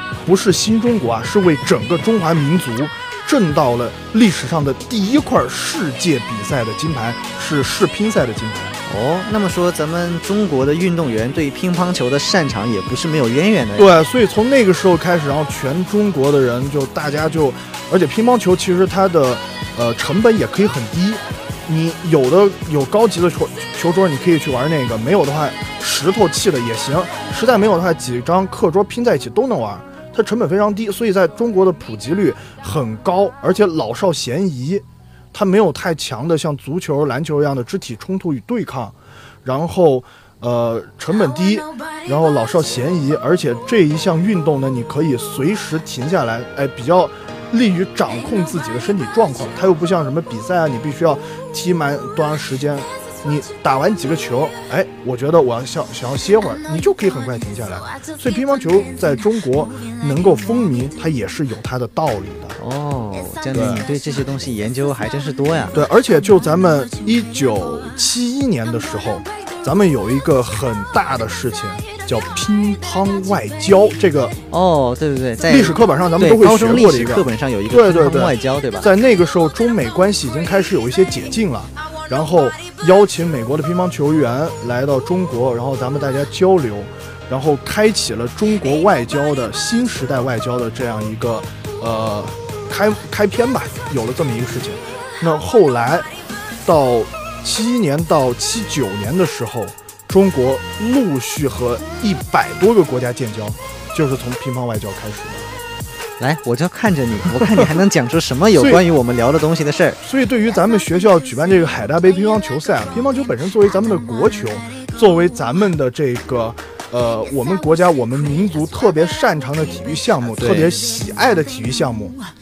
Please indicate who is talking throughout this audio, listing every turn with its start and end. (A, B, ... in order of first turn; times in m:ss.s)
0:00.2-0:08.8 A
0:08.9-0:13.9 B
0:13.8-1:02.6 A
1:02.6-1:05.8 B
1:03.5-1:03.8 A
1:05.7-1:14.4 A
1:14.5-1:18.9 B
1:15.4-1:36.1 A
1:36.6-1:45.5 A
1:46.2-1:50.0 B
1:47.4-1:47.7 A
1:48.5-1:48.8 A
1:50.0-2:02.2 A
2:00.4-2:00.7 B